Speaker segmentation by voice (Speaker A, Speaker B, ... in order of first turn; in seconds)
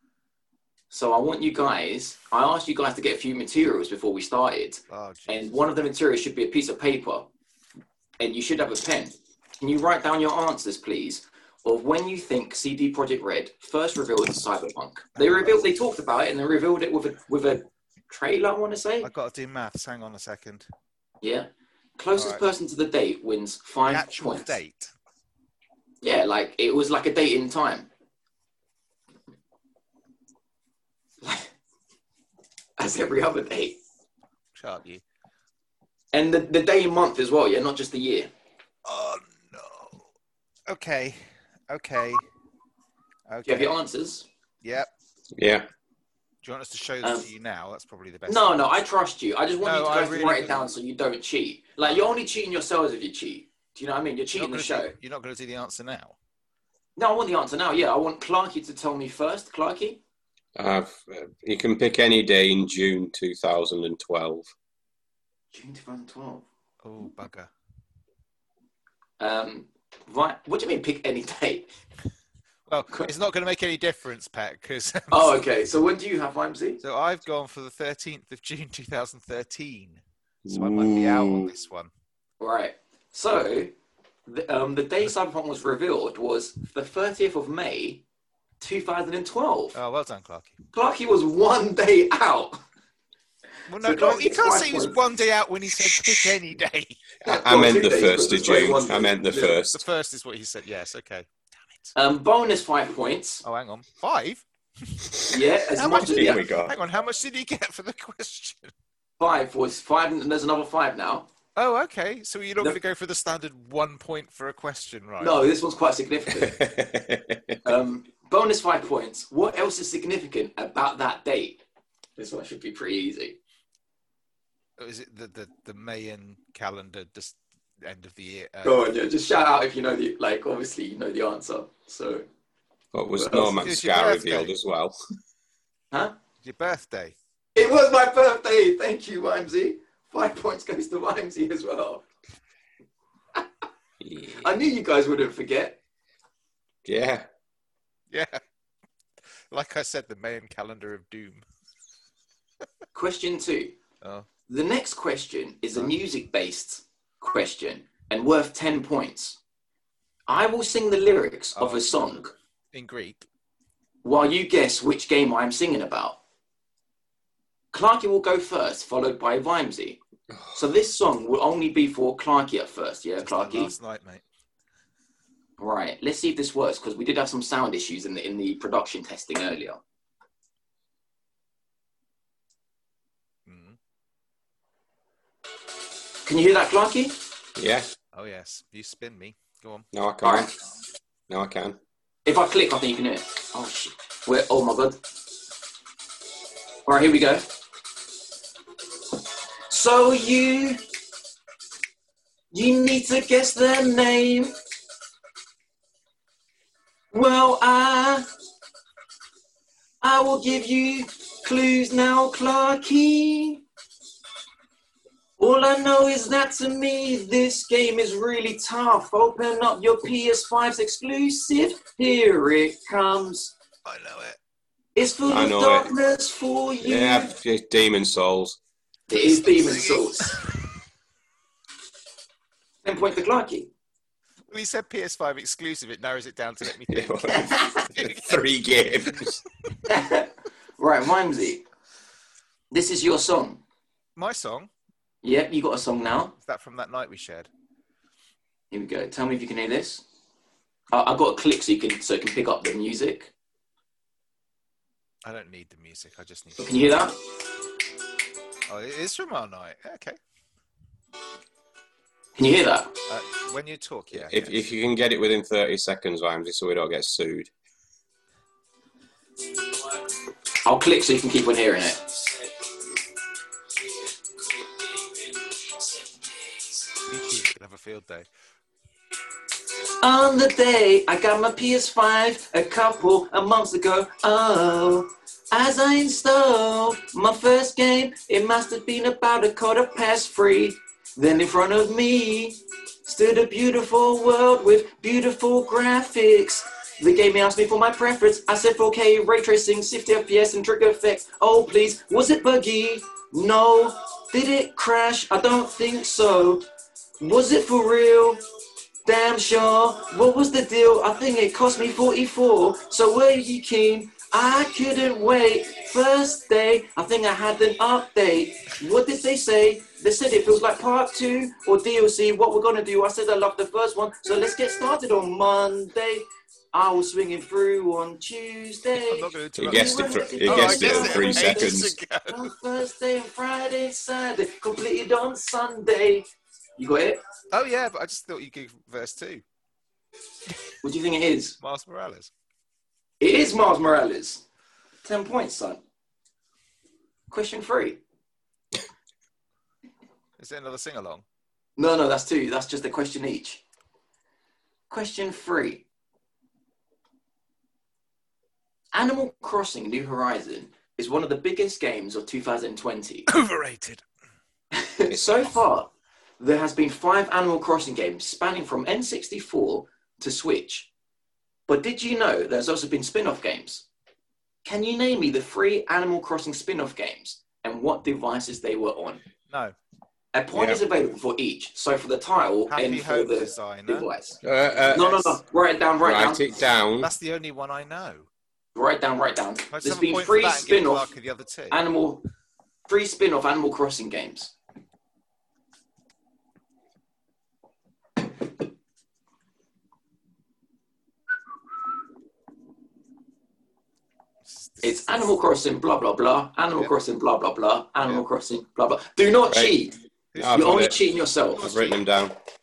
Speaker A: 0.9-7.3, 8.2-19.1, 21.2-24.5, 26.0-27.9, 31.2-31.5, 32.8-33.8, 36.1-38.3, 43.5-44.3, 48.3-54.9, 57.0-60.0, 65.5-66.4, 69.2-71.7, 75.1-76.8, 82.4-83.7, 84.3-88.0, 88.6-89.7, 90.7-92.6, 93.8-95.0, 97.2-99.6, 102.0-103.4, 105.3-106.4, 109.2-111.3, 115.2-116.7, 117.6-121.6, 122.2-123.4, 128.6-132.2, 133.2-133.5, 137.6-142.1, 144.3-145.8, 152.9-153.7, 154.5-159.4, 160.3-162.3, 164.0-166.2, 167.7-170.0, 170.5-173.7, 175.6-179.8, 186.2-187.2, 190.2-190.5, 192.2-195.0, 196.8-197.5, 199.7-200.8, 202.5-204.5, 207.1-208.2, 210.0-213.6, 215.4-223.5, 224.9-227.3, 229.1-230.4, 232.8-233.7, 237.5-237.8, 239.9-241.6, 242.7-243.6, 245.2-246.3, 248.7-250.0, 250.9-253.3, 256.6-257.1, 262.4-262.9, 270.6-272.4, 280.0-306.6, 307.2-308.4, 309.0-336.2, 336.8-337.2, 340.8-341.6, 343.2-344.4, 345.0-345.8, 347.3-348.0, 351.8-353.6, 354.9-355.8, 358.9-363.3, 364.7-365.9, 366.4-370.9, 371.7-373.8, 374.6-379.2, 380.3-384.4, 384.9-386.4, 388.7-391.1, 391.7-392.2, 392.9-394.5, 404.8-409.9, 410.5-411.8
Speaker B: 4.9-5.6, 15.2-15.7, 19.0-20.7, 22.1-22.4, 23.8-24.9, 34.5-35.0, 38.9-40.0, 40.7-42.2, 43.3-43.7, 44.6-44.9, 46.4-48.6, 49.6-50.6, 54.4-56.1, 66.8-67.5, 72.7-75.5, 76.8-81.9, 89.7-90.6, 93.7-97.0, 99.7-101.3, 103.4-105.2, 105.7-108.7, 111.5-115.4, 124.8-128.8, 133.3-134.5, 136.4-137.1, 148.1-148.4, 149.5-151.4, 154.0-154.3, 161.6-162.2, 162.7-163.3, 173.2-174.2, 183.4-183.8, 188.1-189.9, 223.8-224.4, 229.2-230.2, 234.5-238.4, 244.2-244.7, 246.4-247.5, 255.2-256.9, 258.7-260.2, 263.1-264.6, 277.1-278.3, 328.9-332.4, 337.5-339.4, 341.6-342.3, 350.4-351.2, 363.3-364.0, 379.5-379.8, 382.7-384.1, 387.0-388.3, 389.7-391.8, 404.4-405.3, 410.3-411.0, 411.6-411.9
Speaker C: 45.3-45.7, 60.5-64.5, 80.5-81.5, 97.2-99.8, 106.0-106.8, 116.4-117.7, 132.9-134.9, 144.0-144.5, 146.8-147.3, 187.6-187.9, 189.9-190.5, 191.3-191.8, 225.3-225.9, 226.8-228.6, 236.9-239.4, 264.2-267.5, 329.6-331.9, 365.1-365.5, 380.5-380.8, 384.4-385.3, 386.0-387.1, 409.5-409.8, 410.4-411.0, 411.5-412.3